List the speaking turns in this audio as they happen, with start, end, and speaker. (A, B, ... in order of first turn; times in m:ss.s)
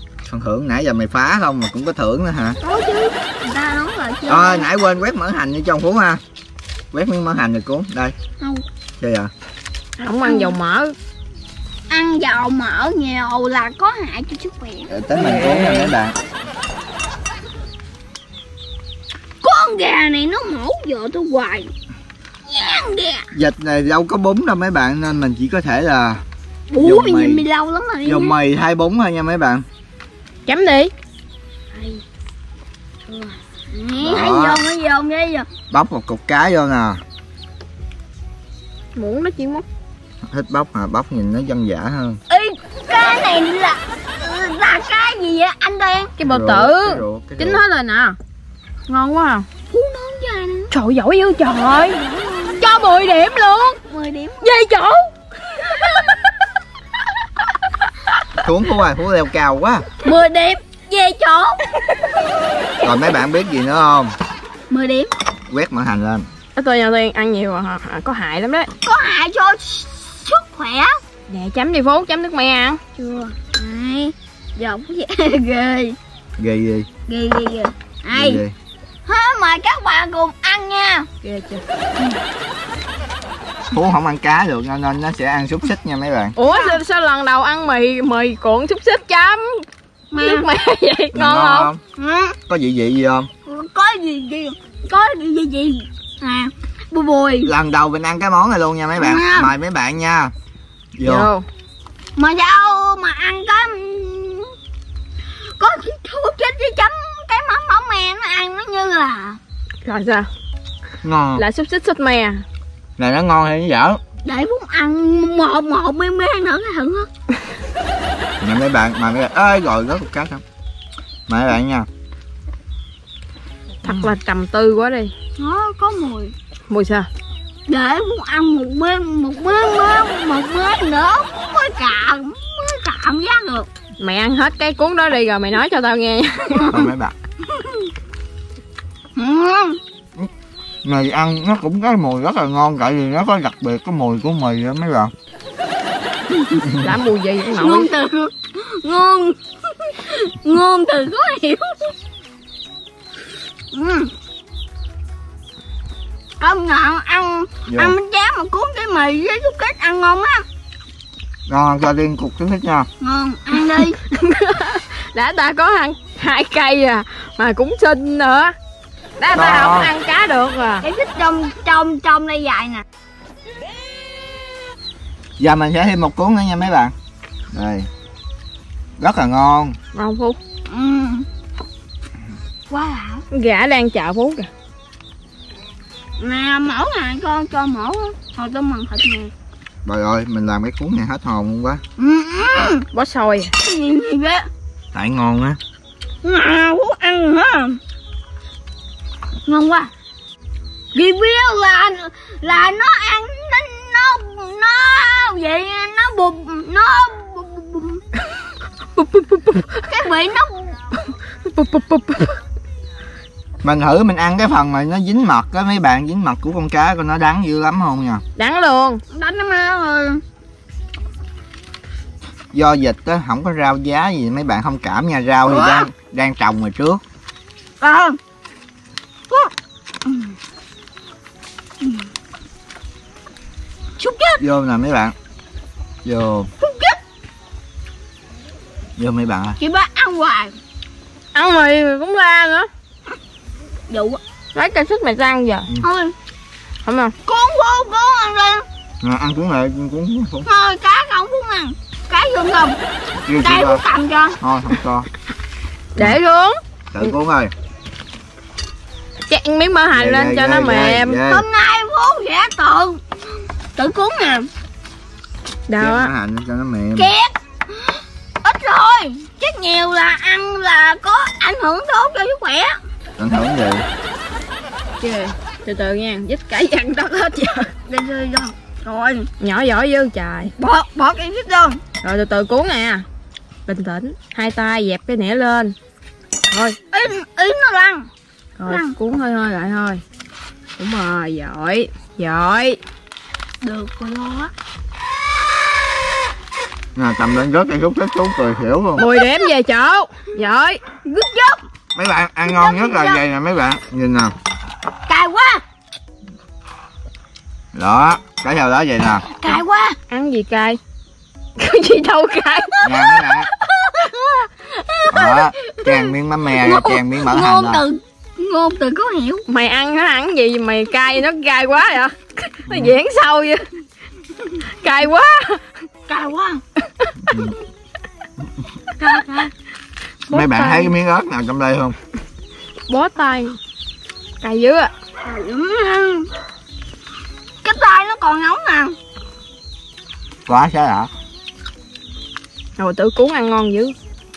0:00.2-0:02.6 A
0:02.6-0:04.7 B
0:04.3-0:06.2 A
0:06.9-0:08.1 A
0:09.0-0:09.3 A
0:10.0-0:10.9 C
0:10.2-0:10.5 B
0:11.9-0:14.9 B
0:14.9-0:16.2 A
0:15.1-0:15.9 C
0:19.4-0:21.7 B
0:22.5-0:23.3 B
0:23.3-0:26.2 A
0:26.7-0:28.4 B
0:26.8-0:27.5 A
0:28.0-0:29.6 A
0:30.4-0:30.9 C
0:31.7-0:32.0 B
0:33.1-0:35.5 B
0:34.0-0:34.6 A
0:35.7-0:37.0 A
0:39.0-0:39.6 C
0:40.3-0:42.2 A
0:42.3-0:46.1 B
0:46.2-0:48.2 C
0:46.2-0:47.6 A
0:48.9-0:49.5 C
0:49.7-0:50.7 B
0:50.7-0:52.0 C
0:51.9-0:52.8 B
0:52.6-0:53.8 C
0:53.7-0:54.7 B
0:54.4-0:55.0 C
0:55.7-0:56.2 C
0:55.7-0:56.1 B
0:58.4-0:59.9 A
1:00.0-1:01.6 B
1:02.2-1:02.9 B
1:02.8-1:04.1 A
1:04.7-1:05.1 B
1:05.5-1:06.3 A
1:06.6-1:08.7 C
1:08.8-1:11.0 B
1:11.3-1:12.8 C
1:13.0-1:16.0 B
1:16.4-1:16.9 A
1:17.1-1:18.4 B
1:18.1-1:18.5 A
1:19.0-1:21.1 B
1:21.2-1:21.6 C
1:23.7-1:26.4 A
1:26.4-1:29.6 C
1:26.4-1:26.8 B
1:30.1-1:30.5 B
1:30.2-1:31.7 C
1:31.1-1:31.8 A
1:32.0-1:32.4 B
1:32.5-1:33.3 A
1:33.4-1:37.5 B
1:37.4-1:40.3 A
1:39.0-1:39.5 B
1:40.9-1:41.3 A
1:41.0-1:41.4 C
1:42.2-1:44.5 B
1:45.6-1:49.4 B
1:49.8-1:50.3 C
1:51.0-1:51.4 A
1:51.4-1:52.4 C
1:53.0-1:54.0 A
1:54.2-1:57.1 B
1:58.4-2:00.4 A
2:01.3-2:01.9 A
2:03.8-2:05.1 C
2:05.4-2:06.3 B
2:06.7-2:07.1 C
2:07.7-2:13.7 B
2:14.0-2:16.8 C
2:16.7-2:17.1 A
2:17.5-2:17.8 B
2:19.2-2:19.8 B
2:20.8-2:25.1 A
2:26.3-2:26.6 B
2:26.6-2:27.0 A
2:26.8-2:27.9 C
2:27.5-2:31.9 B
2:33.7-2:34.1 B
2:36.4-2:40.4 B
2:37.7-2:38.0 A
2:41.5-2:42.9 A
2:43.0-2:44.0 B
2:44.1-2:48.5 C
2:49.2-2:50.8 C
2:49.3-2:49.9 A
2:50.8-2:52.8 B
2:55.4-2:56.9 A
2:57.5-2:57.9 A
2:59.0-2:59.8 A
2:59.9-3:00.4 C
3:00.7-3:01.3 B
3:02.7-3:03.2 B
3:03.3-3:04.5 C
3:06.2-3:09.3 B
3:09.8-3:11.8 A
3:12.0-3:12.8 B
3:12.9-3:13.5 C
3:13.6-3:14.5 B
3:14.9-3:15.6 A
3:16.2-3:17.8 B
3:19.5-3:19.9 B
3:20.9-3:28.0 B
3:29.0-3:29.9 C
3:29.9-3:30.8 B
3:31.5-3:32.3 C
3:33.6-3:38.2 A
3:38.4-3:39.0 C
3:39.1-3:40.2 B
3:42.5-3:47.0 A
3:45.5-3:45.9 B
3:47.8-3:48.2 B
3:50.0-3:50.3 B
3:51.8-3:52.1 B
3:54.0-3:54.4 B
3:54.4-3:55.1 A
3:56.0-3:56.5 A
3:56.6-3:57.0 B
3:59.0-3:59.6 A
3:59.6-4:00.5 B
4:01.3-4:02.7 C
4:03.9-4:04.2 B
4:04.5-4:05.7 C
4:05.8-4:06.1 B
4:06.8-4:07.1 C
4:07.2-4:08.7 B
4:09.0-4:10.5 A
4:10.5-4:12.8 B
4:13.2-4:13.8 A
4:13.4-4:14.4 B
4:14.4-4:15.1 A
4:16.0-4:16.6 C
4:16.9-4:17.5 A
4:19.3-4:21.2 C
4:19.9-4:21.4 A
4:21.3-4:23.0 B
4:23.8-4:24.5 B
4:25.7-4:26.1 C
4:25.8-4:27.1 A
4:27.0-4:32.8 B
4:33.2-4:33.8 A
4:35.0-4:37.7 C
4:37.9-4:39.3 B
4:39.4-4:40.5 C
4:40.6-4:41.8 B
4:42.0-4:43.0 C
4:43.7-4:45.8 C
4:46.5-4:46.8 C
4:46.9-4:48.1 B
4:48.6-4:50.0 C
4:48.7-4:49.0 B
4:50.8-4:52.8 C
4:53.6-4:54.5 B
4:57.0-4:59.0 A
4:59.0-5:00.8 C
4:59.0-4:59.3 B
5:01.0-5:01.6 B
5:02.0-5:04.3 A
5:02.4-5:03.2 B
5:05.1-5:05.6 B
5:07.7-5:09.3 A
5:09.4-5:10.0 B
5:10.1-5:10.8 C
5:11.6-5:12.9 C
5:12.8-5:19.4 B
5:12.8-5:13.5 A
5:15.1-5:17.8 A
5:19.5-5:23.7 C
5:24.8-5:25.6 C
5:26.1-5:26.6 B
5:27.3-5:27.6 A
5:29.0-5:29.5 B
5:30.3-5:30.9 C
5:30.3-5:32.0 A
5:32.9-5:33.6 C
5:34.4-5:34.9 C
5:35.2-5:36.3 B
5:37.6-5:39.0 B
5:40.5-5:41.1 A
5:42.8-5:44.0 C